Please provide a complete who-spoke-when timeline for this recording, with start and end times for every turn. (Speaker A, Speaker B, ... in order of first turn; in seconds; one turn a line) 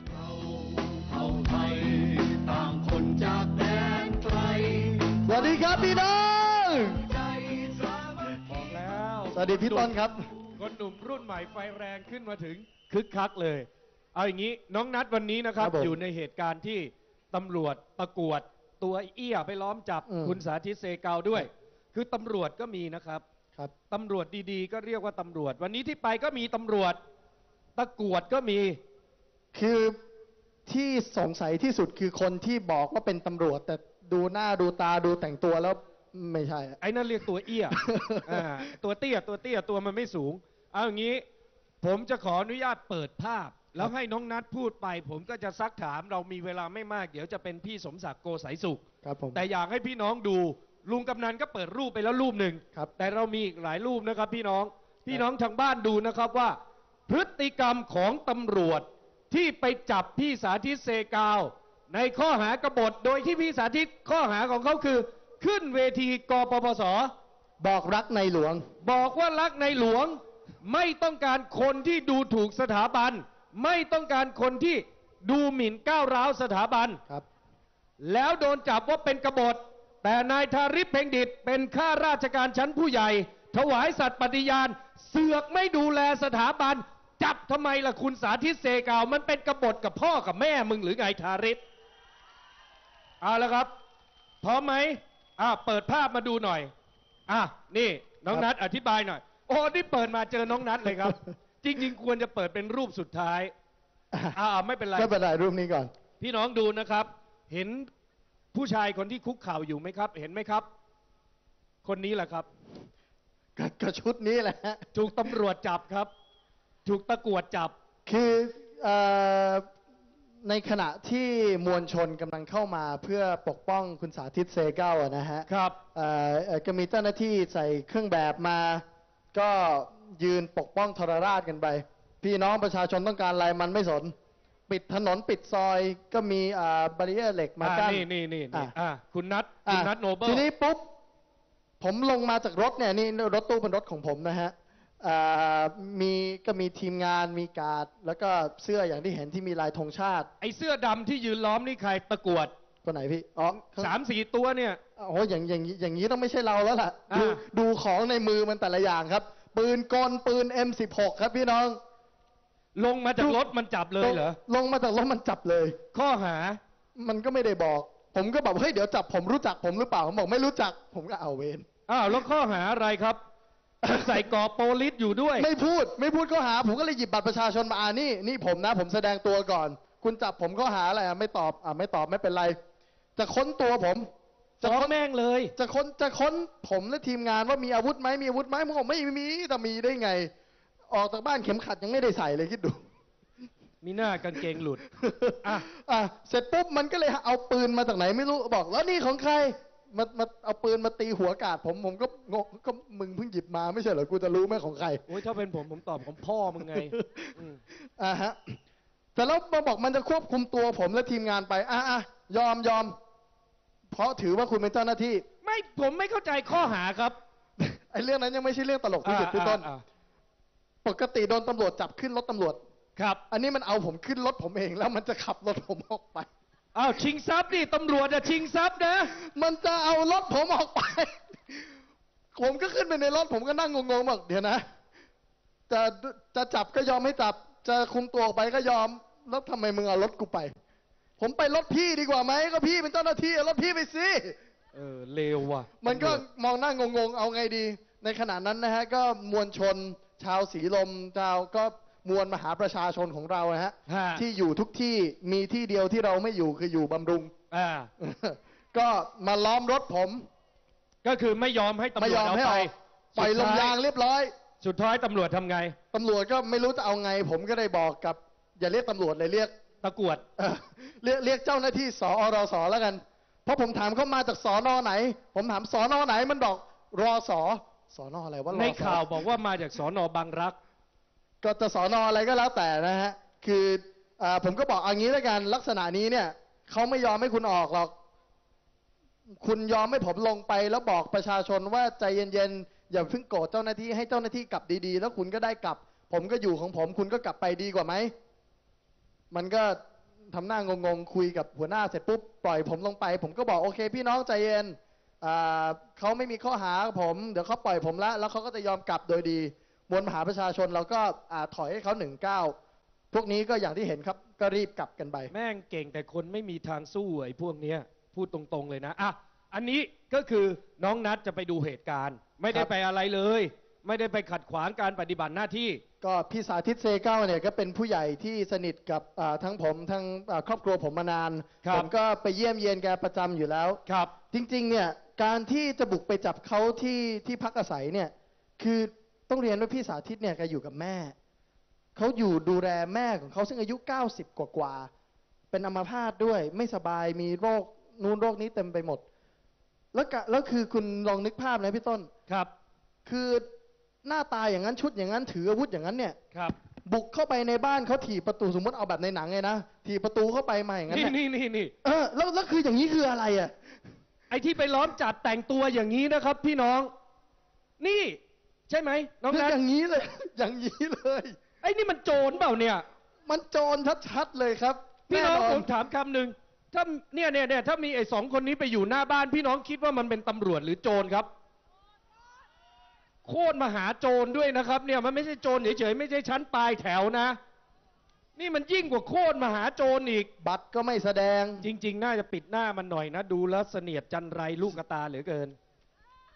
Speaker A: 0.3-5.0
Speaker B: 3.5-4.6
Speaker C: 5.2-7.1
Speaker A: 7.2-8.1
Speaker B: 8.3-9.9
Speaker C: 9.3-10.2
Speaker B: 10.6-23.2
Speaker C: 15.6-15.9
Speaker C: 20.1-20.4
Speaker B: 23.9-27.0
Speaker B: 27.8-28.8
Speaker C: 29.5-30.0
Speaker C: 30.6-36.8
Speaker B: 36.8-41.2
Speaker C: 37.7-38.7
Speaker B: 41.8-48.8
Speaker C: 49.0-49.4
Speaker B: 49.3-56.5
Speaker B: 57.1-67.1
Speaker C: 67.6-68.6
Speaker B: 68.8-77.0
Speaker B: 78.0-91.6
Speaker B: 93.2-93.7
Speaker B: 94.4-96.7
Speaker B: 97.3-103.5
Speaker B: 104.3-105.1
Speaker C: 104.9-105.9
Speaker B: 106.2-107.9
Speaker B: 108.5-110.7
Speaker B: 111.8-112.5
Speaker C: 113.5-115.3
Speaker B: 114.9-116.1
Speaker B: 116.8-117.7
Speaker C: 118.0-119.7
Speaker C: 120.4-128.8
Speaker B: 125.5-125.8
Speaker C: 129.3-134.1
Speaker C: 134.7-138.7
Speaker B: 137.6-140.4
Speaker C: 139.7-140.9
Speaker C: 141.8-150.3
Speaker B: 150.4-152.5
Speaker C: 152.8-153.9
Speaker B: 153.6-154.8
Speaker C: 155.0-161.8
Speaker B: 157.1-157.4
Speaker B: 162.8-164.4
Speaker C: 163.2-163.5
Speaker C: 164.0-165.8
Speaker B: 165.9-166.6
Speaker C: 166.9-171.7
Speaker B: 171.9-173.2
Speaker C: 173.8-174.2
Speaker B: 173.8-175.5
Speaker C: 175.4-182.6
Speaker C: 183.2-184.1
Speaker C: 184.6-184.9
Speaker B: 184.6-185.5
Speaker C: 185.6-190.3
Speaker C: 190.9-192.8
Speaker B: 193.8-194.8
Speaker C: 194.4-205.1
Speaker B: 205.1-207.6
Speaker C: 206.6-207.3
Speaker C: 208.0-208.6
Speaker C: 209.1-212.9
Speaker C: 213.9-215.2
Speaker B: 215.4-217.2
Speaker C: 217.6-219.7
Speaker B: 219.0-219.8
Speaker C: 220.8-222.6
Speaker C: 223.3-226.3
Speaker B: 226.7-229.1
Speaker C: 229.1-231.7
Speaker C: 232.3-234.6
Speaker C: 235.7-240.5
Speaker C: 241.2-244.4
Speaker B: 244.7-246.2
Speaker C: 245.8-257.3
Speaker B: 253.9-254.2
Speaker B: 257.5-257.9
Speaker C: 258.0-260.3
Speaker B: 261.0-263.8
Speaker C: 262.0-264.3
Speaker B: 264.6-265.7
Speaker C: 265.9-269.5
Speaker B: 269.8-270.2
Speaker C: 270.4-279.0
Speaker B: 278.5-280.6
Speaker C: 281.4-287.9
Speaker C: 289.3-298.1
Speaker C: 299.3-312.6
Speaker C: 313.1-315.3
Speaker B: 315.3-325.8
Speaker C: 326.0-333.8
Speaker B: 331.6-331.9
Speaker B: 333.9-334.1
Speaker C: 334.3-341.1
Speaker C: 341.9-344.9
Speaker C: 345.5-349.0
Speaker C: 349.9-352.1
Speaker C: 353.1-353.4
Speaker C: 354.0-356.2
Speaker C: 356.9-361.1
Speaker B: 360.9-361.7
Speaker C: 361.8-363.5
Speaker B: 364.3-366.9
Speaker B: 367.8-368.2
Speaker B: 368.7-369.6
Speaker C: 369.3-371.3
Speaker B: 371.6-372.8
Speaker C: 373.2-375.7
Speaker B: 375.1-381.3
Speaker B: 383.2-387.4
Speaker B: 388.4-390.3
Speaker C: 390.4-391.6
Speaker B: 391.6-395.6